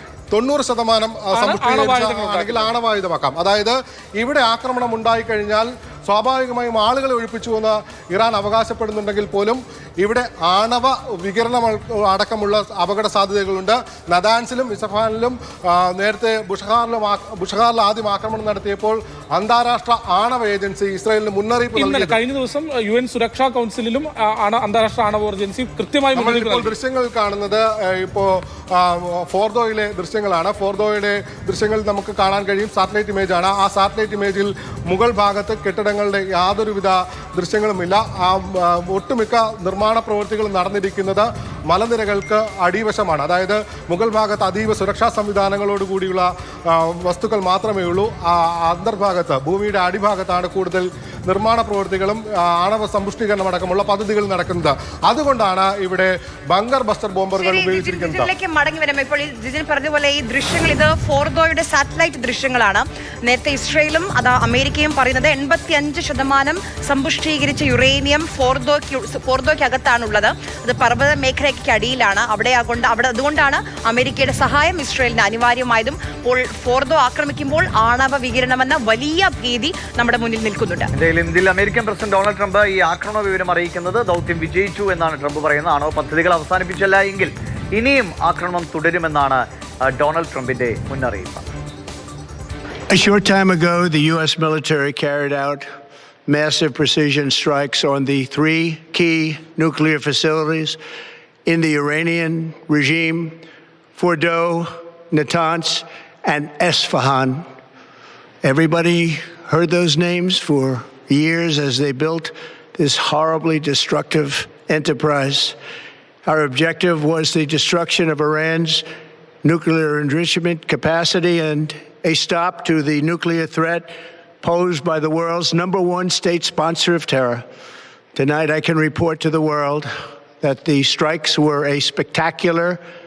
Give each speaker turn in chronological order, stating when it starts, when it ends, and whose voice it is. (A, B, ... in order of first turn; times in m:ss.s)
0:00.3-0:22.2 A
0:01.3-0:02.7 B
0:21.8-0:26.7 B
0:26.2-0:58.3 A
0:57.4-1:20.9 C
1:21.0-1:31.5 D
1:32.9-1:35.7 E
1:36.3-1:40.8 E
1:41.5-1:43.4 E
1:44.0-1:47.5 E
1:48.4-1:55.6 E
1:56.3-1:58.9 E
1:59.4-2:03.9 E
2:04.4-2:07.5 E
2:08.2-2:12.8 E